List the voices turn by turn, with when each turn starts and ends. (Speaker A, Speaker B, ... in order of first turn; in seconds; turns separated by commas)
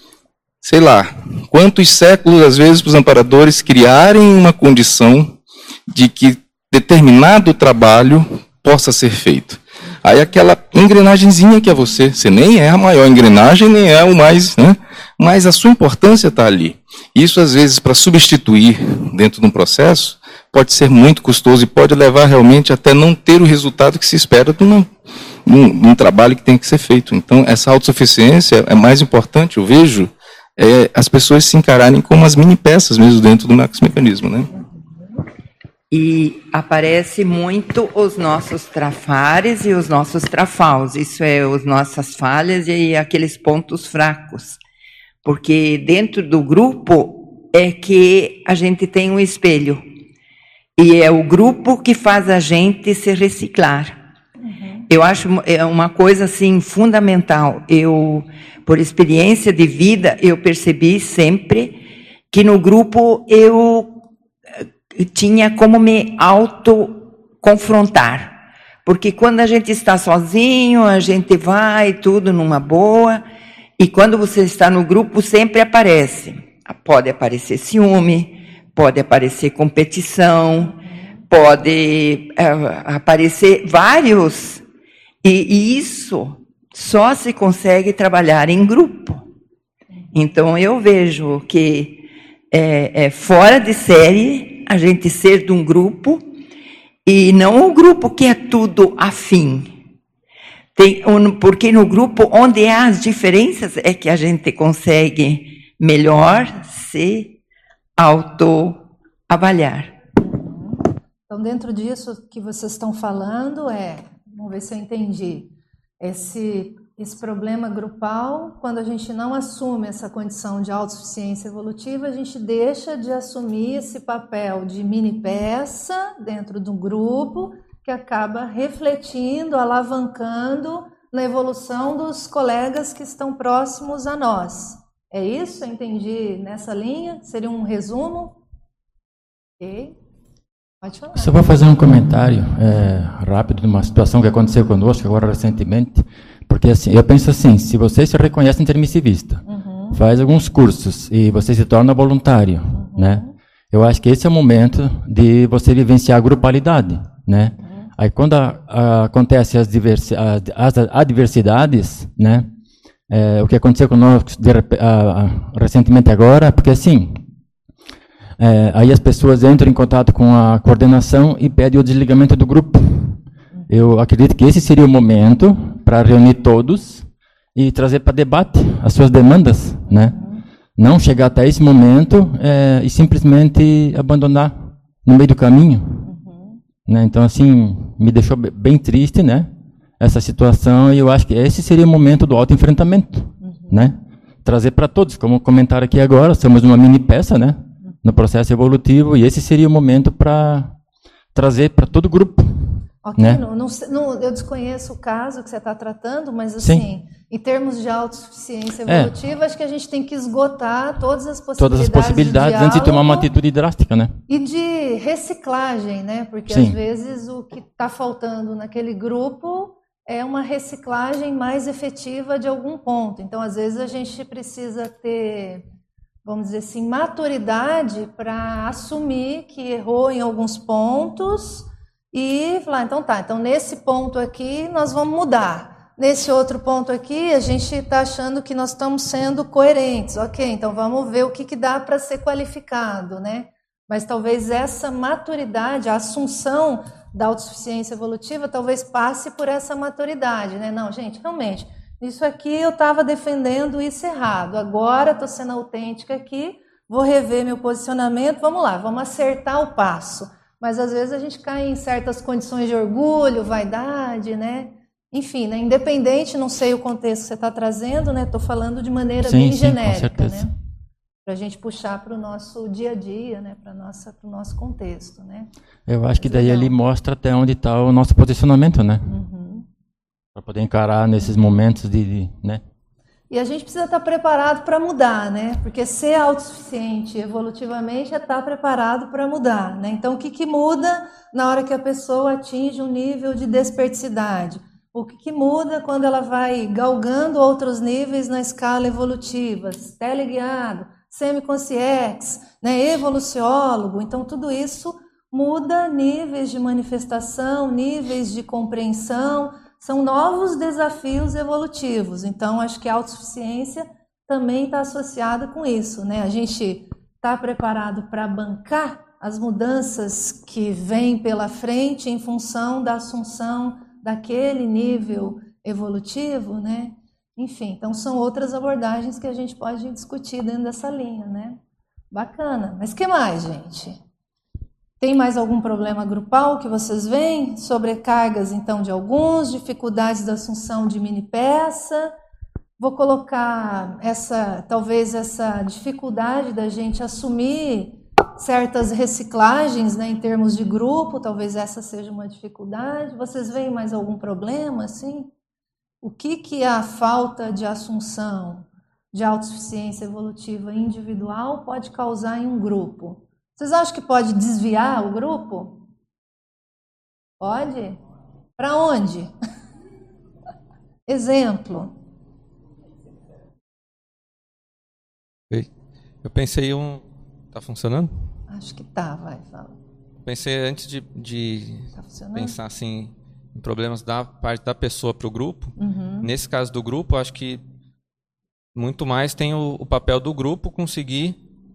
Speaker A: 0.6-5.3, Speaker A: 5.9-24.9, Speaker A: 25.4-34.5, Speaker B: 34.6-34.8, Speaker C: 35.9-44.6, Speaker C: 45.2-49.8, Speaker C: 50.8-54.0, Speaker B: 54.4-54.8, Speaker C: 54.9-64.0, Speaker C: 65.0-73.2, Speaker C: 73.8-80.8, Speaker B: 80.8-81.1, Speaker C: 81.3-84.6, Speaker C: 85.2-89.2, Speaker C: 90.1-96.2, Speaker C: 97.0-99.7, Speaker C: 100.7-107.4, Speaker C: 108.0-109.9, Speaker B: 110.2-138.4, Speaker B: 139.6-139.9, Speaker B: 140.8-141.6, Speaker D: 141.1-162.5, Speaker B: 149.4-150.0, Speaker B: 152.7-153.3, Speaker B: 157.6-157.9, Speaker D: 163.1-167.3, Speaker D: 168.4-180.2, Speaker B: 179.9-180.4, Speaker D: 180.8-186.1, Speaker B: 186.0-186.6, Speaker D: 186.8-200.8, Speaker B: 193.4-193.8, Speaker D: 201.3-203.4, Speaker B: 203.0-213.3, Speaker D: 206.6-206.9, Speaker D: 208.8-209.2, Speaker D: 211.6-214.2, Speaker B: 214.3-225.6, Speaker D: 216.5-216.8, Speaker B: 226.2-270.5, Speaker D: 269.2-270.5, Speaker B: 271.2-275.5, Speaker D: 275.9-279.1, Speaker B: 276.1-276.8, Speaker B: 279.1-279.6, Speaker D: 280.3-282.6, Speaker B: 283.3-331.6, Speaker B: 332.1-334.0, Speaker B: 335.0-342.1, Speaker B: 342.8-355.3, Speaker B: 356.0-365.8, Speaker B: 367.4-368.0, Speaker B: 368.6-369.3, Speaker B: 371.1-371.9, Speaker E: 376.2-378.1, Speaker B: 378.5-379.8, Speaker E: 380.2-387.6, Speaker B: 381.9-382.6, Speaker B: 385.8-386.3, Speaker E: 388.7-391.4